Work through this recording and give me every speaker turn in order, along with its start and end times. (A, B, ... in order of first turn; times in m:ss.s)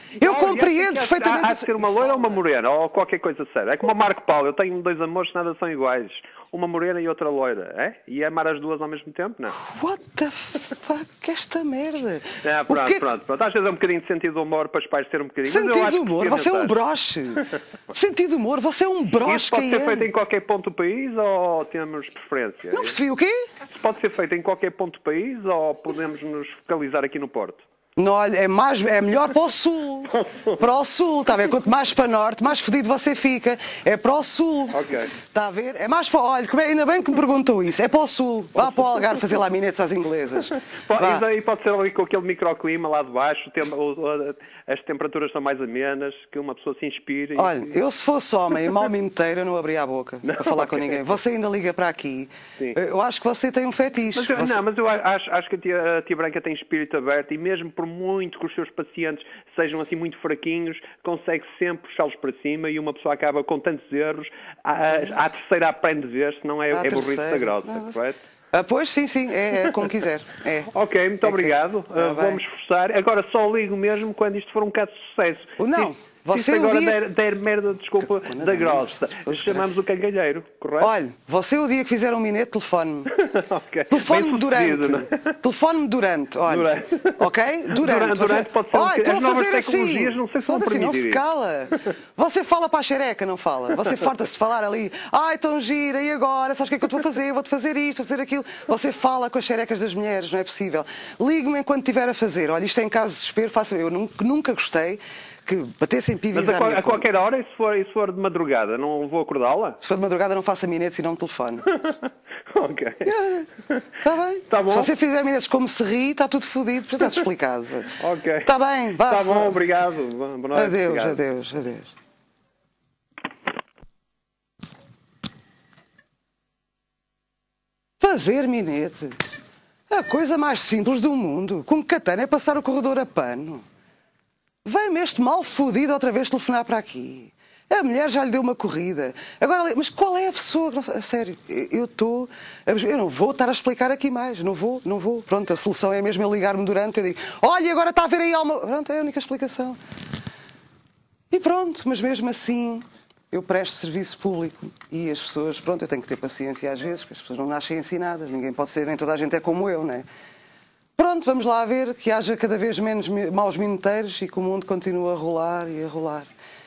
0:00.2-0:02.4 A
0:00.2-0:09.6 B
0:09.6-0:13.1 A
0:12.4-0:16.7 B
0:15.4-0:20.1 A
0:19.2-0:23.0 B
0:22.7-0:23.4 A
0:23.7-0:27.6 B
0:28.0-0:41.2 A
0:30.2-0:30.6 B
0:34.7-0:35.1 B
0:40.6-0:47.8 B
0:47.4-0:54.6 A
0:50.2-0:51.1 B
0:54.2-1:08.2 B
1:06.7-1:08.0 A
1:08.5-1:10.7 A
1:10.7-1:20.9 B
1:11.2-1:12.4 A
1:15.6-1:17.0 A
1:18.0-1:19.7 A
1:20.8-1:23.1 A
1:23.1-1:25.4 B
1:23.9-1:47.1 A
1:26.5-1:31.2 B
1:46.3-1:49.8 B
1:49.8-1:51.7 A
1:51.7-1:53.2 B
1:53.0-1:53.5 A
1:54.0-1:59.7 A
1:54.5-1:54.9 B
1:58.0-1:58.5 B
1:59.0-2:01.2 B
2:00.5-2:01.9 A
2:08.0-2:09.3 A
2:09.9-2:13.6 A
2:14.6-2:29.8 A
2:31.3-2:40.1 A
2:41.0-2:46.3 A